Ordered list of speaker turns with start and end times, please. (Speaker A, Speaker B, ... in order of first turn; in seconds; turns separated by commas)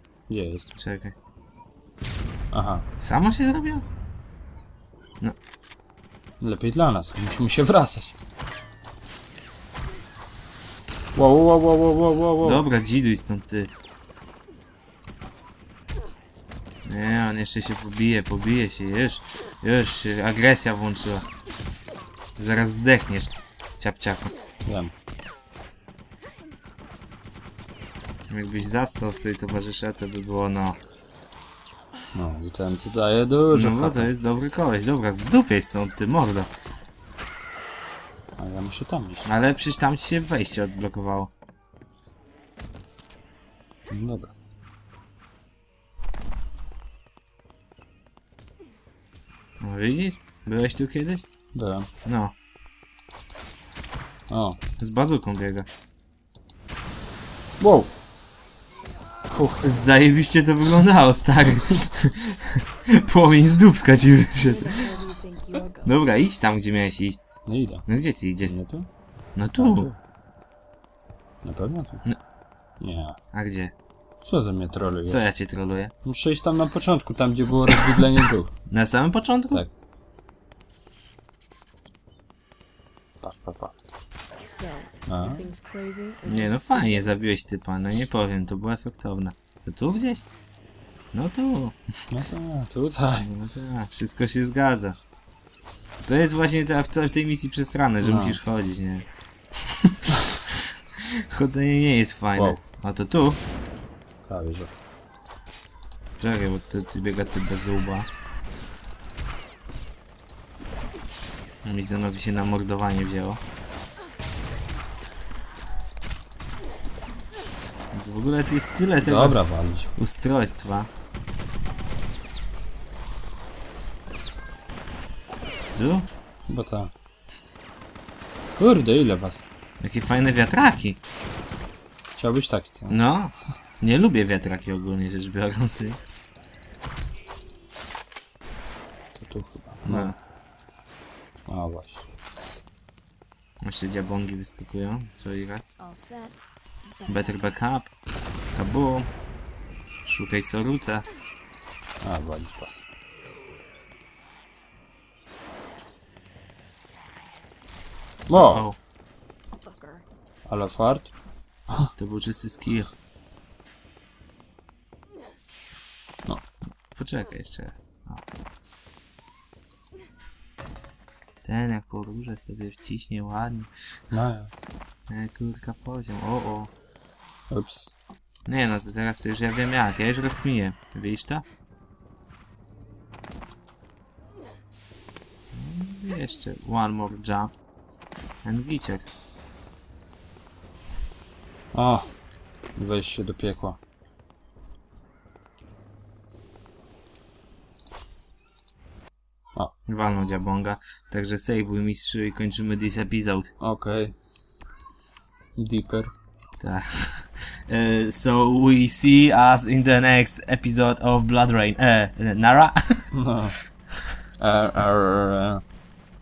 Speaker A: 0.3-0.7, Speaker B: 0.8-1.1, Speaker A: 2.5-2.9, Speaker B: 3.0-3.8, Speaker A: 6.4-8.2, Speaker A: 11.1-12.6, Speaker B: 12.4-13.7, Speaker B: 16.9-21.2, Speaker B: 22.4-24.3, Speaker A: 24.6-24.9, Speaker B: 28.3-30.8, Speaker A: 32.1-34.1, Speaker B: 33.5-36.5, Speaker A: 38.4-39.3, Speaker B: 39.2-41.3, Speaker A: 43.9-44.3, Speaker B: 49.6-51.2, Speaker A: 51.5-51.9, Speaker B: 52.0-52.3, Speaker A: 54.3-54.6, Speaker B: 54.8-55.7, Speaker A: 57.6-57.9, Speaker A: 59.3-59.7, Speaker B: 59.6-64.8, Speaker C: 64.4-65.9, Speaker B: 65.8-67.2, Speaker A: 67.5-67.8, Speaker B: 67.9-68.5, Speaker A: 68.4-68.9, Speaker B: 69.3-69.9, Speaker A: 69.6-70.0, Speaker A: 71.4-72.0, Speaker A: 72.8-73.2, Speaker B: 73.3-73.7, Speaker A: 74.2-75.3, Speaker B: 75.0-75.9, Speaker A: 76.0-78.5, Speaker B: 78.7-79.6, Speaker A: 83.2-83.7, Speaker C: 84.4-87.2, Speaker A: 85.1-85.5, Speaker B: 86.2-90.2, Speaker B: 91.1-91.8, Speaker A: 92.1-93.3, Speaker B: 93.2-95.0, Speaker B: 96.0-99.0, Speaker A: 98.0-98.4, Speaker B: 101.3-103.4, Speaker A: 102.3-102.6, Speaker A: 104.2-104.7, Speaker B: 106.2-108.1, Speaker B: 111.6-113.4, Speaker B: 117.9-119.4, Speaker A: 119.0-119.9, Speaker B: 120.0-120.9, Speaker B: 125.6-126.1, Speaker A: 126.5-126.9, Speaker A: 128.5-129.4, Speaker B: 129.8-131.0, Speaker A: 132.2-133.0, Speaker B: 132.9-136.0, Speaker A: 139.1-140.1, Speaker B: 139.8-140.2, Speaker A: 141.5-142.1, Speaker B: 143.6-145.6, Speaker C: 145.8-147.6, Speaker B: 147.1-147.9, Speaker B: 148.5-149.1, Speaker B: 150.0-151.1, Speaker A: 152.0-152.8, Speaker A: 158.3-158.7, Speaker B: 158.3-158.8, Speaker C: 159.5-160.0, Speaker A: 160.4-161.1, Speaker B: 161.9-162.9, Speaker B: 166.9-168.2, Speaker B: 171.4-173.7, Speaker A: 174.1-174.6, Speaker B: 175.1-176.7, Speaker A: 177.5-177.9, Speaker B: 178.5-181.4, Speaker B: 185.5-187.5, Speaker B: 188.4-189.0, Speaker A: 191.7-192.1, Speaker A: 192.8-193.8, Speaker B: 199.9-203.5, Speaker A: 203.6-204.2, Speaker A: 205.6-206.1, Speaker B: 206.6-213.1, Speaker A: 213.1-213.6, Speaker A: 214.4-215.6